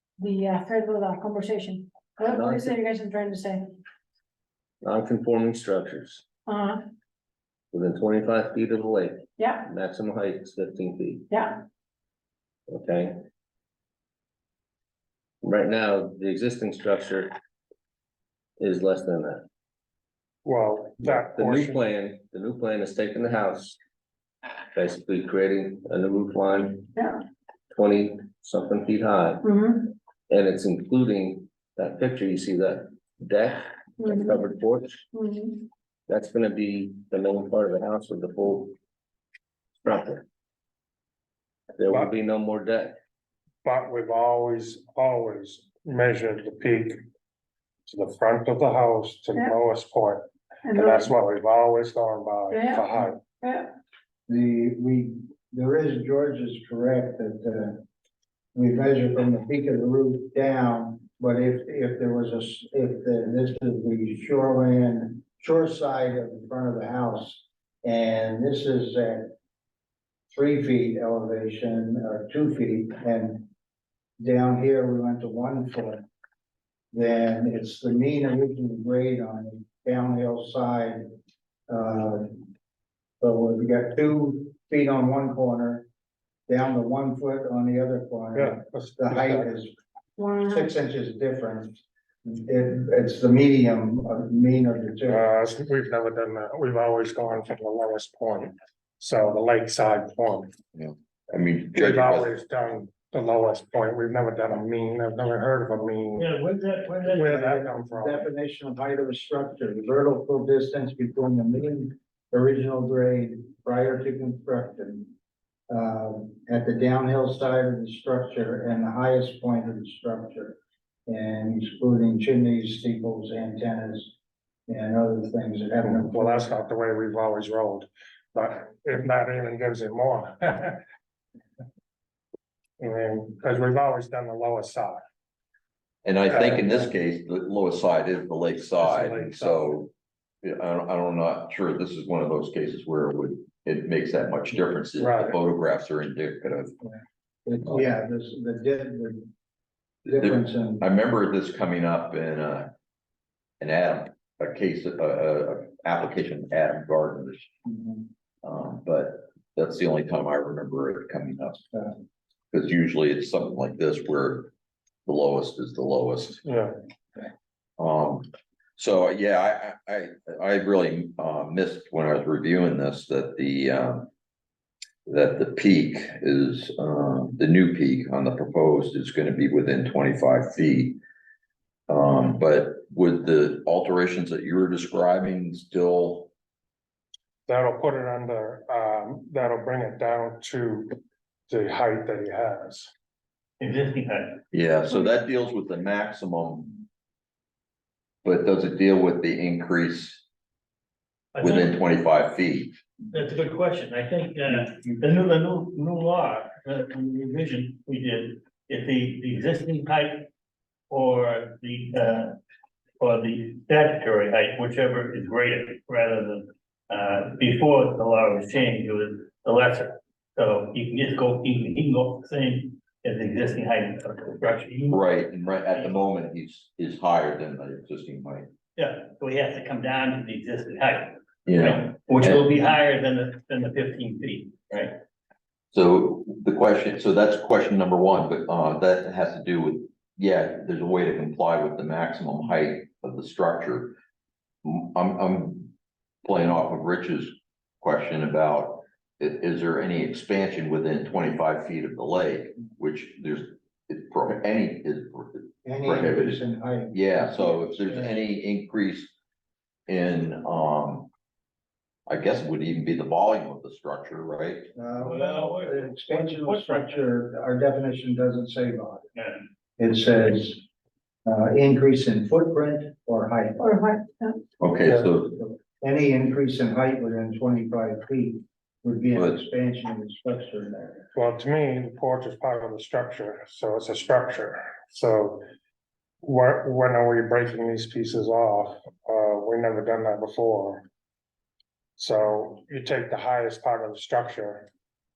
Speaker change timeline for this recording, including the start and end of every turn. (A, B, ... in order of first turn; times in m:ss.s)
0:00.2-0:03.8 A
0:02.3-0:02.8 B
0:04.8-0:06.4 B
0:06.4-0:06.8 A
0:07.7-0:11.3 B
0:09.4-0:09.7 A
0:11.3-0:11.6 A
0:12.7-0:13.2 B
0:15.4-0:17.3 B
0:18.6-0:19.4 B
0:20.4-0:21.8 C
0:21.0-0:23.8 B
0:24.7-0:26.9 B
0:27.0-0:27.2 A
0:27.7-0:29.5 B
0:29.4-0:29.9 A
0:30.3-0:35.1 B
0:34.0-0:34.5 A
0:35.1-0:35.7 A
0:36.1-0:38.7 B
0:39.8-0:40.2 B
0:41.8-0:43.0 B
0:41.8-0:42.1 C
0:43.6-0:47.0 C
0:47.8-0:53.2 C
0:50.6-0:51.1 A
0:52.5-0:53.7 A
0:54.3-0:57.8 D
0:58.5-1:09.3 D
1:10.3-1:13.4 D
1:14.2-1:16.0 D
1:16.9-1:21.0 D
1:21.7-1:22.4 D
1:23.2-1:25.8 D
1:26.5-1:29.7 D
1:28.3-1:29.5 C
1:30.2-1:30.7 A
1:30.4-1:31.7 D
1:32.2-1:35.4 D
1:35.1-1:40.5 C
1:40.7-1:42.3 E
1:41.7-1:46.3 C
1:46.2-1:47.3 F
1:46.9-1:55.1 D
1:47.2-1:48.3 C
1:55.7-2:04.1 D
2:04.7-2:06.5 D
2:05.8-2:10.8 C
2:12.8-2:15.0 C
2:16.0-2:19.9 E
2:16.3-2:16.9 C
2:18.8-2:19.8 C
2:20.4-2:26.7 E
2:25.0-2:25.3 C
2:27.4-2:29.3 D
2:30.0-2:32.7 E
2:30.1-2:30.8 D
2:33.6-2:37.5 E
2:37.6-2:38.0 D
2:38.4-2:41.6 E
2:42.5-2:44.5 E
2:45.0-2:46.4 E
2:46.4-2:46.7 C
2:47.8-2:54.1 E
2:55.1-3:01.0 E
3:01.9-3:06.3 E
3:07.5-3:11.0 C
3:11.5-3:12.9 C
3:13.6-3:14.4 F
3:14.5-3:16.8 E
3:18.2-3:20.2 E
3:21.4-3:21.7 F
3:21.4-3:22.7 E
3:23.1-3:30.3 F
3:30.9-3:32.4 F
3:33.0-3:45.0 F
3:44.9-3:48.5 E
3:48.8-3:54.9 F
3:51.4-3:52.4 E
3:55.7-4:04.0 E
4:04.6-4:05.7 E
4:06.2-4:19.1 E
4:15.6-4:18.2 D
4:19.9-4:21.1 E
4:22.1-4:24.7 E
4:24.7-4:29.0 D
4:25.0-4:27.0 F
4:29.1-4:29.4 F
4:29.8-4:30.6 D
4:31.2-4:33.7 D
4:33.6-4:34.4 A
4:34.6-4:35.4 E
4:35.2-4:41.1 D
4:39.1-4:39.4 E
4:41.1-4:45.4 C
4:46.2-4:50.8 C
4:52.0-4:54.7 C